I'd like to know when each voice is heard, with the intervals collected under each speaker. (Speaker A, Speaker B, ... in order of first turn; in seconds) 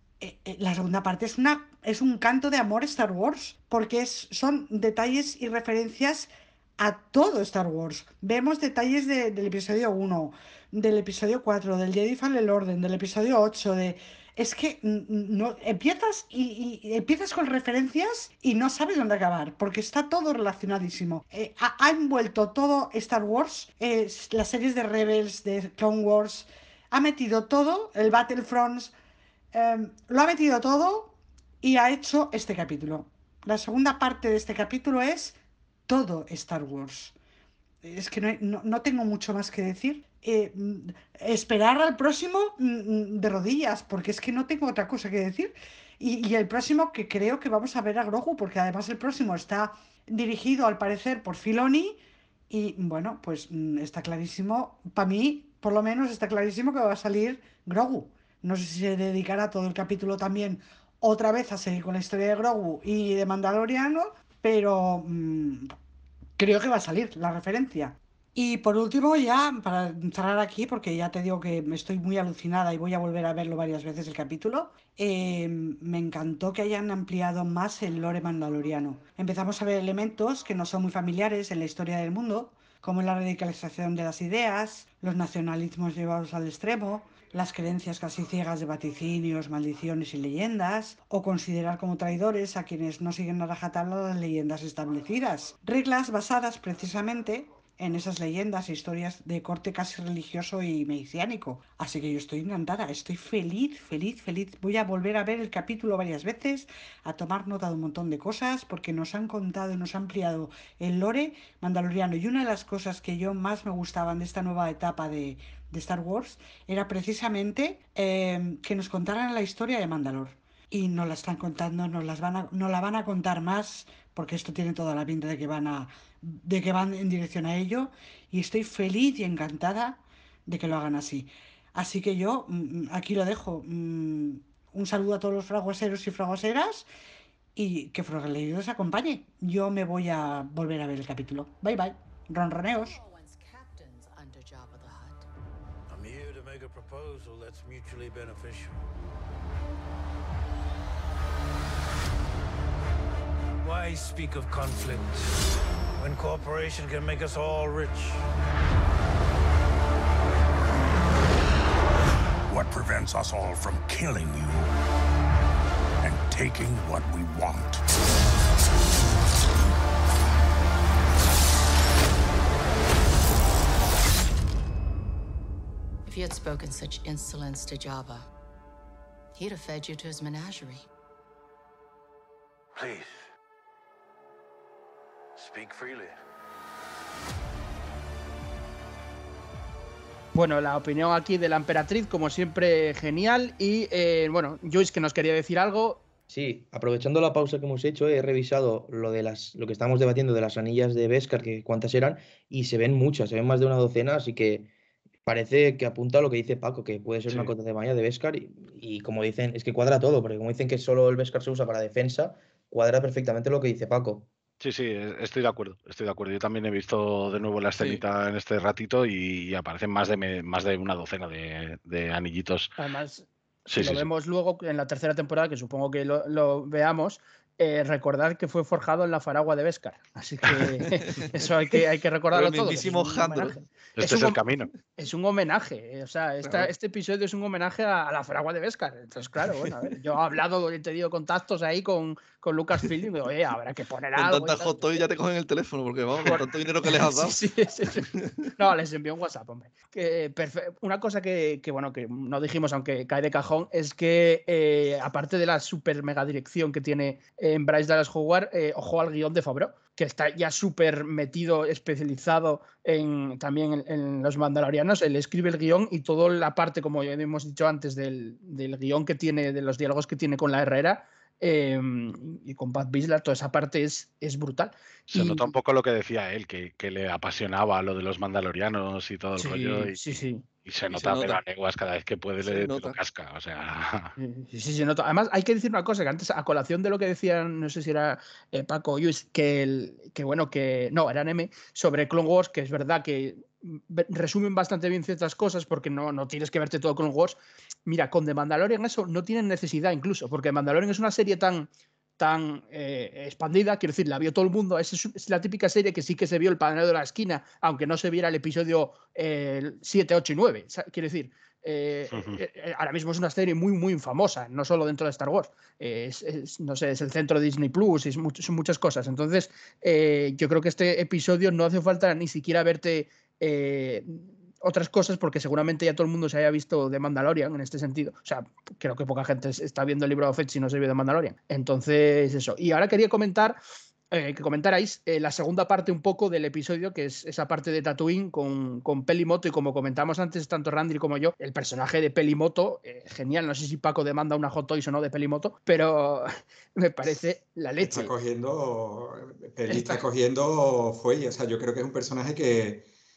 Speaker A: 0.2-28.9, 29.5-37.1, 37.8-65.7, 66.4-136.9, 137.6-143.0
Speaker B: 142.6-145.3, 176.1-178.3, 179.3-180.9
Speaker C: 145.9-148.8, 153.6-155.3, 156.0-158.2, 182.8-183.2, 185.4-186.2
Speaker D: 162.5-164.7, 166.0-167.8
Speaker E: 190.3-196.0, 222.8-234.4, 235.0-245.1, 246.2-275.5, 279.4-280.4, 284.2-301.7, 302.2-333.6, 334.1-348.1, 349.7-350.0
Speaker F: 196.3-204.7, 205.3-214.3
Speaker G: 214.6-222.7, 223.7-224.1, 234.0-234.7, 275.1-284.1, 312.1-312.4
Speaker H: 230.6-231.8, 232.3-233.6, 236.4-236.7, 244.2-247.4, 248.1-248.5, 280.9-281.4, 282.4-283.0
Speaker I: 347.8-352.9